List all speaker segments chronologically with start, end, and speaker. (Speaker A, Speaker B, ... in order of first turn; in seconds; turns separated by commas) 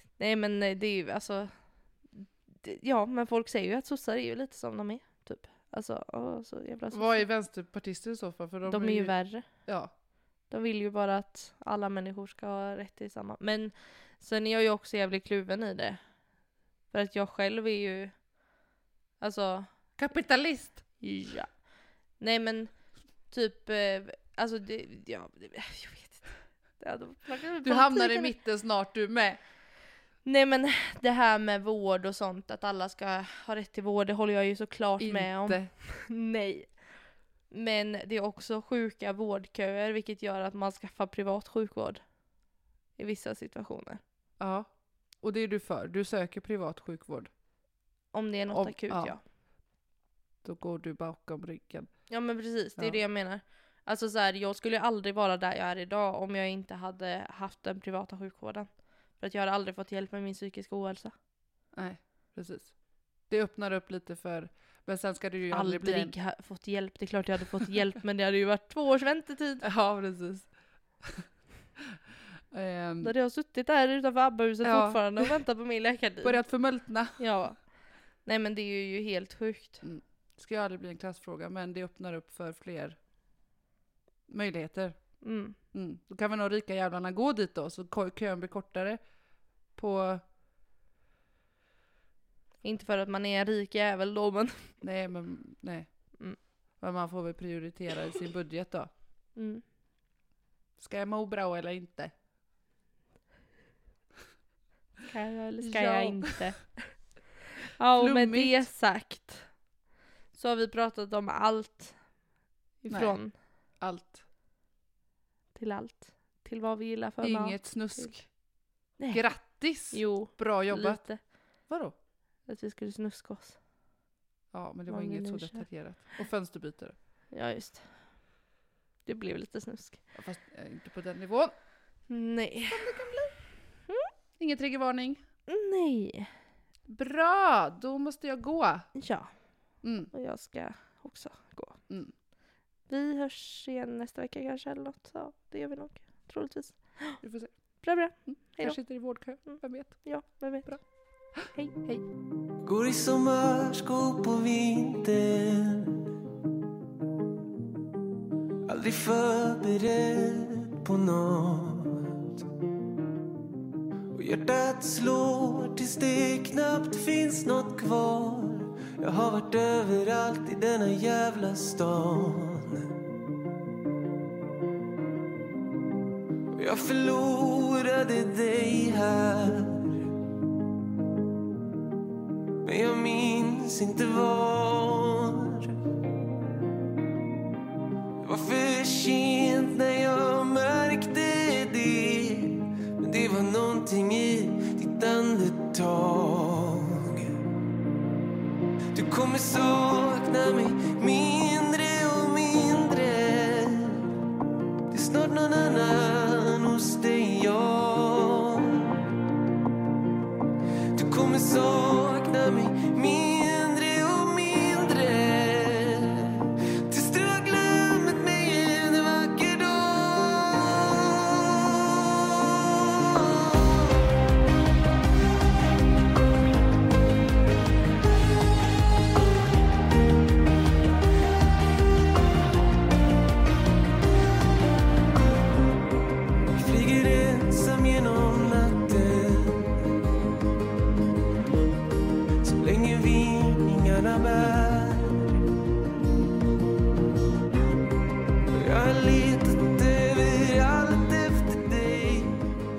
Speaker A: 0.1-1.5, Speaker A: 2.2-7.3, Speaker B: 6.9-9.9, Speaker A: 8.7-9.5, Speaker A: 10.5-16.0, Speaker A: 16.9-18.2, Speaker A: 19.2-19.7, Speaker B: 20.0-20.8, Speaker A: 21.0-21.7, Speaker A: 22.2-22.7, Speaker A: 23.3-28.3, Speaker B: 27.6-29.4, Speaker A: 30.2-36.7, Speaker B: 35.0-35.7, Speaker A: 37.5-42.0, Speaker A: 43.0-44.0, Speaker B: 44.4-47.3, Speaker A: 48.1-49.2, Speaker B: 48.5-49.2, Speaker B: 50.4-51.9, Speaker A: 52.1-61.1, Speaker B: 61.7-62.8, Speaker B: 63.3-66.2, Speaker A: 65.5-69.7, Speaker B: 69.6-70.5, Speaker B: 72.5-73.1, Speaker A: 73.0-76.4, Speaker B: 74.6-75.4, Speaker B: 76.2-77.2, Speaker A: 77.2-77.6, Speaker A: 78.2-79.8, Speaker B: 79.8-83.0, Speaker B: 84.3-85.0, Speaker A: 85.2-85.6, Speaker B: 85.7-89.0, Speaker B: 89.8-90.2, Speaker A: 92.6-94.7, Speaker B: 94.8-95.9, Speaker B: 96.8-98.9, Speaker A: 99.3-99.6, Speaker B: 100.8-102.1, Speaker A: 105.0-106.9, Speaker B: 105.6-106.5, Speaker A: 107.8-109.5, Speaker B: 108.0-108.7, Speaker A: 110.3-112.0, Speaker A: 112.8-113.3, Speaker B: 112.9-113.2, Speaker B: 113.8-114.2, Speaker A: 115.5-118.2, Speaker B: 117.2-118.3, Speaker A: 119.0-121.2, Speaker B: 119.1-121.0, Speaker B: 121.7-122.0, Speaker A: 122.5-123.6, Speaker B: 124.5-127.0, Speaker A: 124.9-125.7, Speaker A: 127.3-127.9, Speaker A: 129.1-130.0, Speaker B: 130.2-131.5, Speaker A: 132.1-133.1, Speaker B: 132.7-133.3, Speaker B: 134.4-135.2, Speaker A: 135.5-136.3, Speaker B: 136.9-138.9, Speaker A: 138.9-139.3, Speaker B: 139.8-140.1, Speaker A: 140.1-141.8, Speaker A: 142.9-147.2, Speaker B: 147.2-147.5, Speaker A: 147.8-148.8, Speaker B: 148.3-150.1, Speaker A: 149.5-150.8, Speaker B: 151.4-152.0, Speaker C: 152.6-156.1, Speaker C: 158.7-162.4, Speaker C: 164.1-172.9, Speaker C: 176.5-180.1, Speaker C: 182.6-185.8, Speaker C: 188.2-197.4, Speaker C: 198.9-204.1, Speaker C: 204.9-209.0, Speaker C: 210.9-223.9, Speaker C: 236.5-239.9, Speaker C: 242.4-245.4, Speaker C: 248.5-252.5